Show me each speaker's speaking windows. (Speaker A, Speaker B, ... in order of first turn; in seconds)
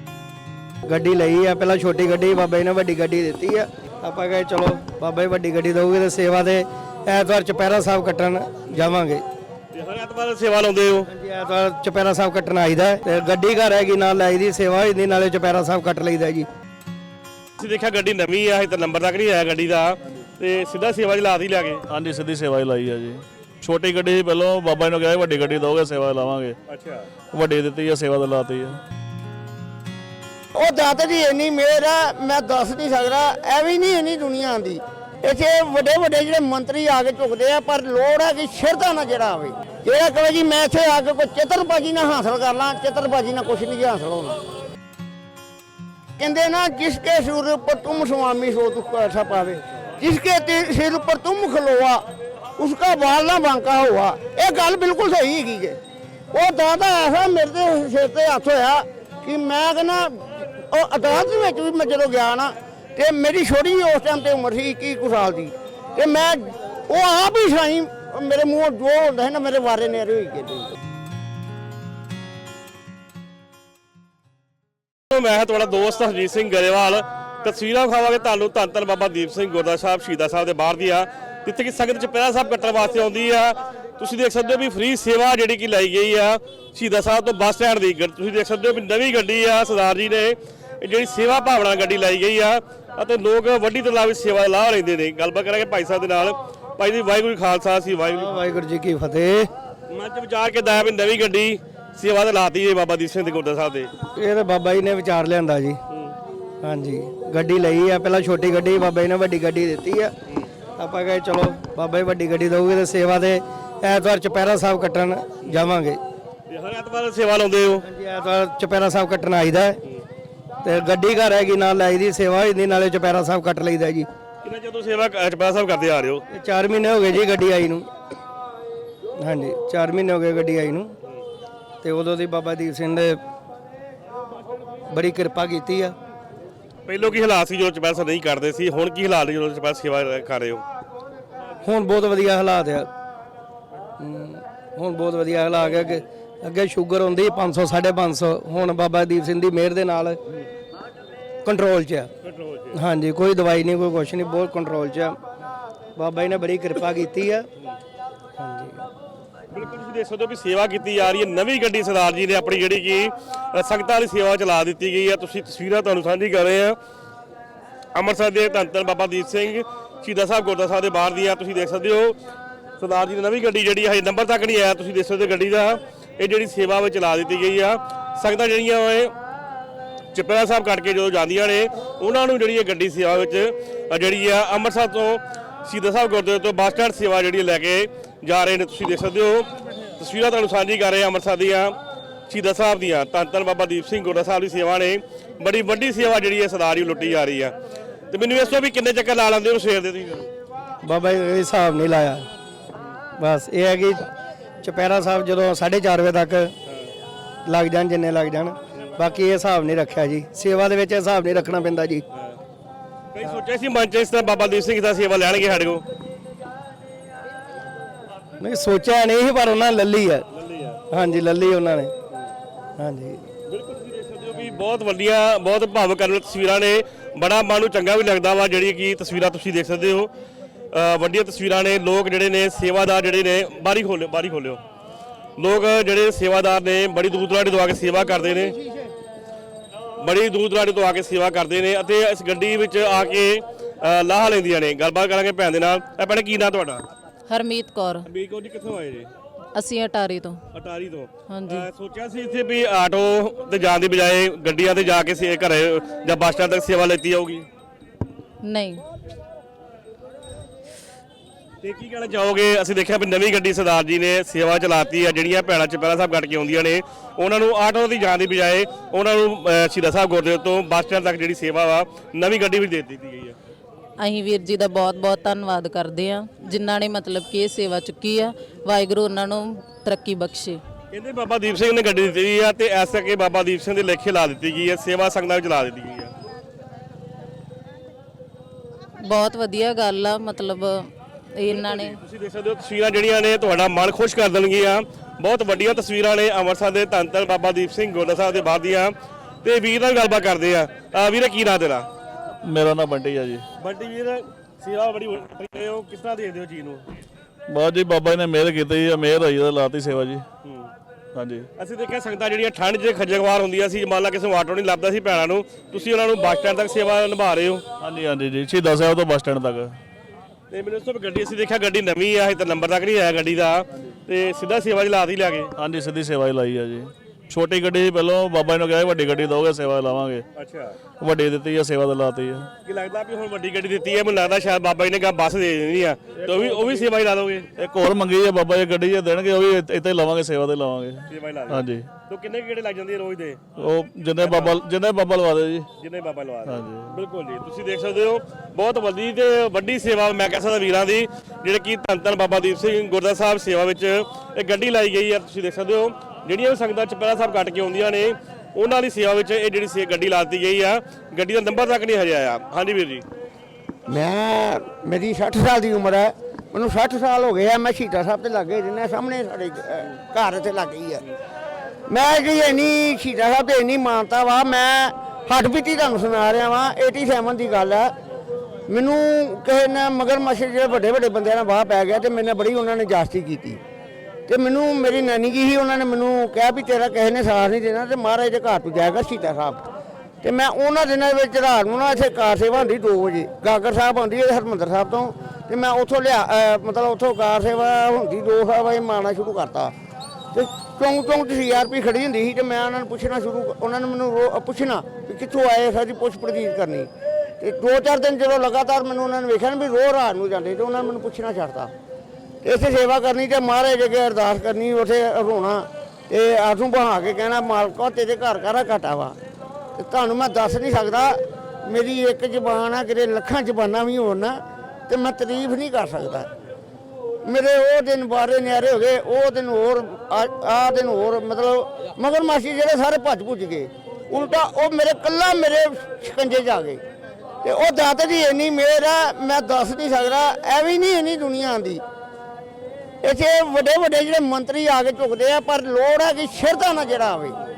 Speaker A: 0.9-9.2, 11.1-16.5, 98.1-99.5, 104.2-105.8, 106.6-110.1, 110.8-116.0, 117.8-119.8, 120.6-124.1, 126.3-127.9, 129.2-130.9, 131.8-133.2, 134.9-135.9, 141.6-142.9, 144.0-150.2, 151.4-152.1, 152.7-155.2, 156.0-157.5, 158.4-158.9, 200.8-202.3, 203.2-204.1, 204.6-206.5, 207.5-212.0, 218.4-220.3, 220.9-221.9, 222.8-223.2
Speaker B: 9.7-11.1, 17.6-21.8, 26.7-27.1, 75.1-98.4, 99.9-103.9, 105.9-106.2, 116.5-117.8, 124.4-126.2, 136.9-140.6, 152.2-152.8, 159.5-166.8, 167.9-172.2, 172.8-179.1, 180.1-191.8, 192.3-197.5, 198.1-200.3, 206.7-206.9, 212.1-212.4, 213.1-215.8, 220.3-220.8, 223.5-230.1, 230.7-234.6, 235.4-238.6, 240.0-246.8, 248.1-249.1, 250.5-257.5, 261.6-273.4, 280.9-286.1, 291.5-301.9, 303.6-306.8, 310.4-310.7, 311.6-317.6, 320.5-325.5, 330.4-330.8, 332.6-337.5, 341.1-343.4, 344.2-344.6, 345.8-363.1
Speaker C: 21.9-26.6, 27.3-28.8, 302.4-303.4, 307.5-310.2, 311.1-311.5, 317.8-319.8, 325.6-330.2, 331.0-332.5, 337.6-341.9, 343.6-345.7, 346.5-346.9
Speaker D: 30.5-44.4, 46.2-52.0, 52.6-55.8, 56.3-70.7, 363.9-371.0, 371.9-377.9, 378.7-383.6, 384.3-389.6, 390.2-399.7, 400.3-406.9, 407.4-411.7, 412.4-419.2, 419.8-426.3, 427.3-436.8, 437.4-441.8, 443.0-447.4
Speaker E: 247.3-248.1, 249.6-250.4, 251.3-251.6, 258.4-258.8, 274.0-280.6, 289.0-292.0